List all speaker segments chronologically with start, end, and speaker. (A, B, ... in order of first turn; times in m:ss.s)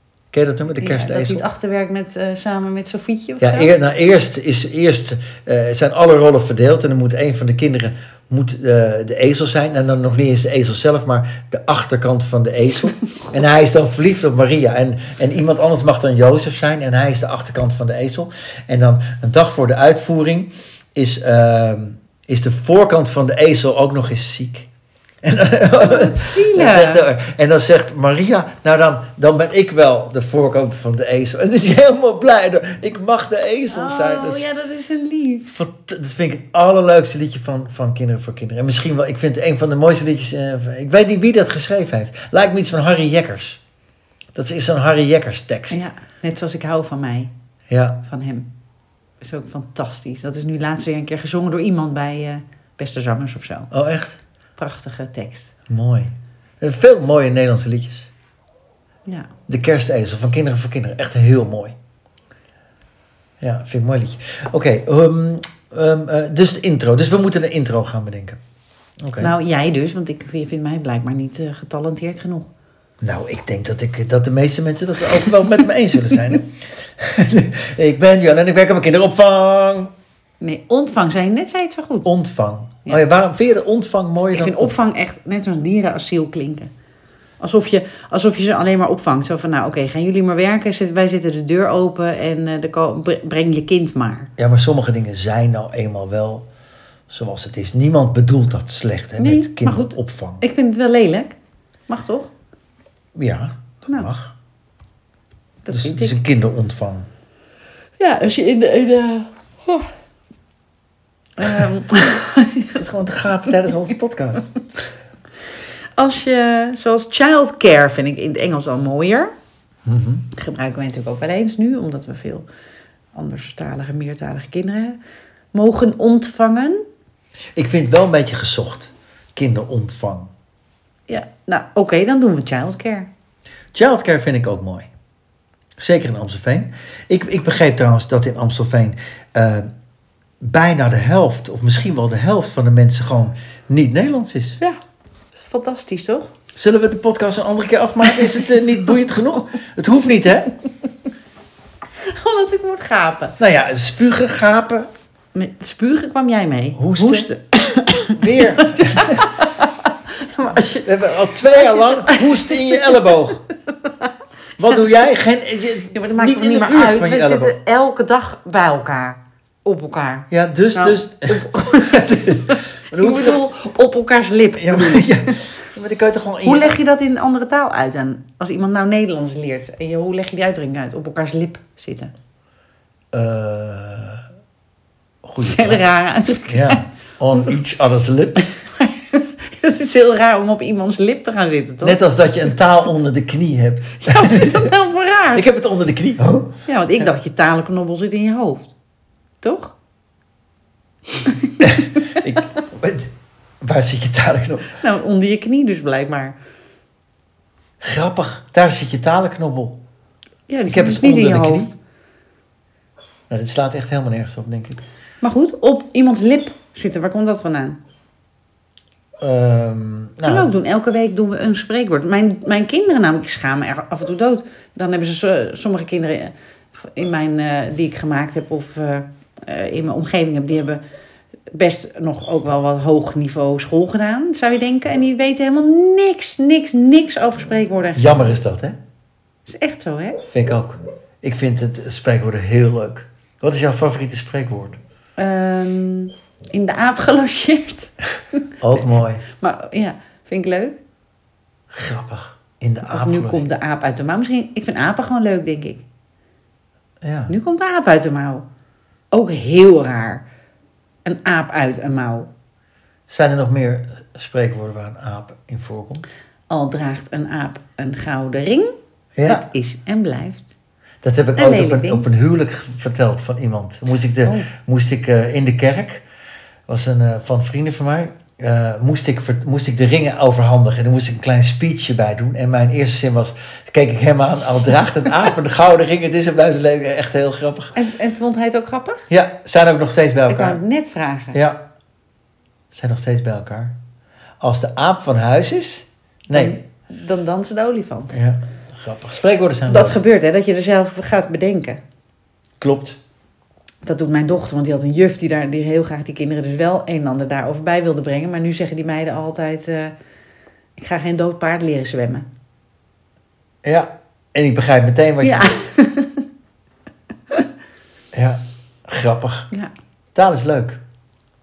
0:00.3-0:01.4 A
0:00.8-0:03.7 B
0:03.4-0:24.7 A
0:25.2-0:34.5 A
0:25.8-0:27.0 B
0:33.7-0:35.6 B
0:35.5-0:43.6 A
0:44.4-0:45.8 A
0:45.7-0:47.3 B
0:47.7-0:48.0 A
0:48.0-0:48.5 B
0:49.2-0:53.7 B
0:53.7-0:54.2 A
0:54.6-0:55.5 B
0:55.7-0:58.1 A
0:59.5-1:01.8 A
1:03.4-1:08.4 A
1:09.0-1:09.3 A
1:09.2-1:12.5 B
1:13.0-1:19.9 A
1:20.4-1:22.1 B
1:22.0-1:24.8 A
1:24.3-1:26.7 B
1:27.4-1:34.3 B
1:34.4-1:36.5 A
1:37.1-1:40.4 A
1:39.2-1:41.4 B
1:41.9-1:42.3 B
1:43.2-1:44.4 A
1:45.6-1:46.2 B
1:45.7-1:47.1 A
1:48.0-1:49.9 B
1:51.4-1:52.8 B
1:52.7-1:54.6 A
1:56.0-1:59.3 B
1:59.9-2:00.3 A
2:00.3-2:02.5 B
2:03.2-2:05.0 B
2:05.5-2:06.8 B
2:07.6-2:10.3 A
2:11.1-2:13.1 B
2:13.7-2:14.9 A
2:15.8-2:19.7 A
2:20.4-2:24.6 A
2:25.4-2:26.3 B
2:26.6-2:30.6 A
2:28.2-2:28.5 B
2:32.0-2:33.4 B
2:33.4-2:34.9 A
2:35.3-2:43.1 B
2:36.8-2:37.3 A
2:38.1-2:39.4 A
2:40.5-2:43.4 A
2:43.7-2:44.1 B
2:44.6-2:47.6 A
2:45.9-2:55.4 B
2:50.3-2:53.4 A
2:54.6-2:56.8 A
2:56.4-3:02.1 B
3:03.1-3:04.2 A
3:05.2-3:05.8 A
3:05.4-3:06.8 B
3:06.5-3:08.5 A
3:08.6-3:12.5 B
3:11.8-3:14.7 A
3:14.0-3:15.4 B
3:15.3-3:16.6 A
3:16.7-3:18.7 B
3:19.4-3:19.8 B
3:21.2-3:21.6 B
3:21.6-3:24.8 A
3:24.7-3:26.4 B
3:27.8-3:29.8 A
3:30.5-3:31.7 B
3:30.7-3:31.7 A
3:33.3-3:34.8 A
3:35.2-3:37.8 B
3:39.2-3:40.5 A
3:40.2-3:50.8 B
3:51.5-3:58.4 B
3:58.0-3:58.8 A
3:59.5-4:00.2 B
4:00.3-4:04.8 A
4:05.2-4:10.8 B
4:08.6-4:09.2 A
4:11.7-4:13.5 A
4:12.9-4:15.8 B
4:17.0-4:17.3 A
4:17.3-4:18.5 B
4:19.1-4:20.3 B
4:21.0-4:22.3 B
4:23.1-4:26.0 A
4:26.5-4:28.7 B
4:29.2-4:29.4 A
4:29.2-4:30.6 B
4:31.0-4:36.0 A
4:31.4-4:32.1 B
4:34.2-4:34.5 B
4:36.7-4:47.7 A
4:47.8-4:49.1 B
4:49.1-4:50.6 A
4:50.3-4:51.4 B
4:51.3-4:51.6 A
4:52.7-4:53.8 A
4:54.4-4:56.6 A
4:56.3-4:58.2 B
4:58.1-5:00.0 A
4:59.7-5:01.8 B
5:02.6-5:03.0 A
5:03.8-5:09.9 B
5:10.8-5:12.3 B
5:13.6-5:15.6 A
5:15.2-5:16.3 B
5:18.1-5:19.5 A
5:20.2-5:20.8 A